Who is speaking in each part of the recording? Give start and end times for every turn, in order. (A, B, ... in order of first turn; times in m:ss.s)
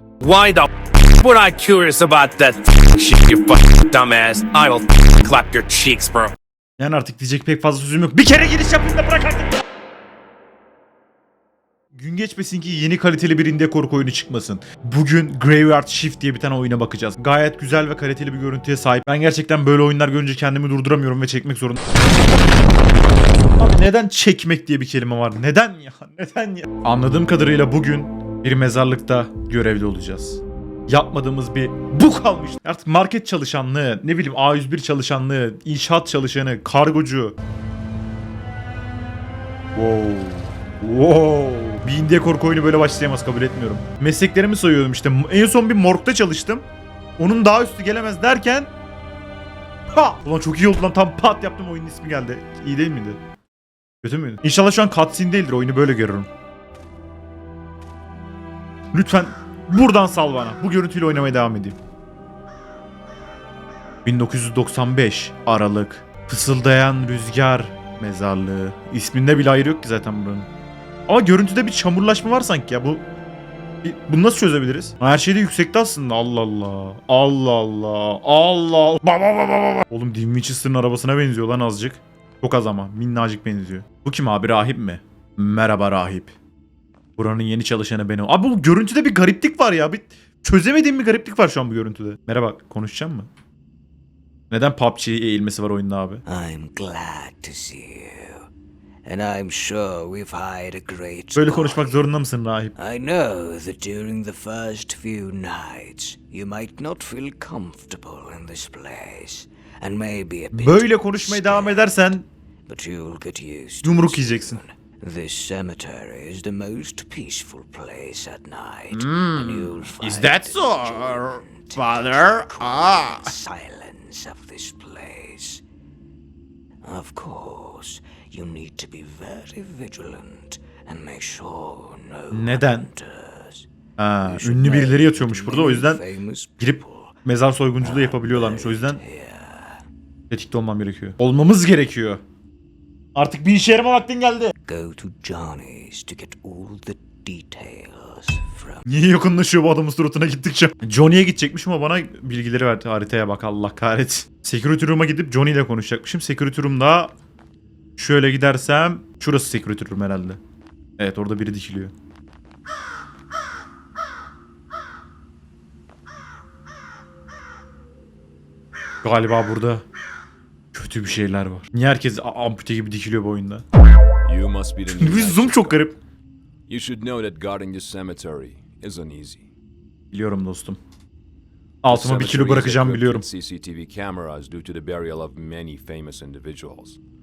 0:00.2-0:06.3 A
0:06.8-0:09.6 B
0:11.9-0:21.8 B
0:23.6-0:37.4 B
0:39.8-0:46.7 B
0:47.2-0:48.7 B
0:49.9-0:53.2 B
0:54.0-0:56.3 B
0:58.9-1:01.8 B
1:04.0-1:10.5 B
1:11.1-1:13.0 B
1:13.8-1:26.3 B
1:27.2-1:33.3 B
1:34.5-1:36.2 B
1:36.2-1:38.5 C
1:39.0-1:42.0 C
1:41.4-1:42.8 B
1:42.8-1:52.0 C
1:50.5-1:52.3 B
1:52.7-2:05.6 C
1:53.8-1:54.6 B
1:58.9-2:03.3 B
2:06.8-2:13.7 C
2:12.3-2:12.9 B
2:14.0-2:16.0 B
2:14.2-2:17.2 C
2:16.6-2:19.0 B
2:17.8-2:19.8 C
2:20.3-2:22.2 B
2:23.2-2:24.5 B
2:24.6-2:28.9 C
2:28.9-2:37.1 B
2:38.0-2:40.4 B
2:41.0-2:41.9 B
2:49.0-2:49.8 B
2:50.7-2:53.6 B
2:54.2-2:55.8 D
2:55.0-2:56.0 B
2:56.7-2:59.5 D
3:00.1-3:00.8 B
3:01.8-3:03.3 B
3:01.9-3:07.0 D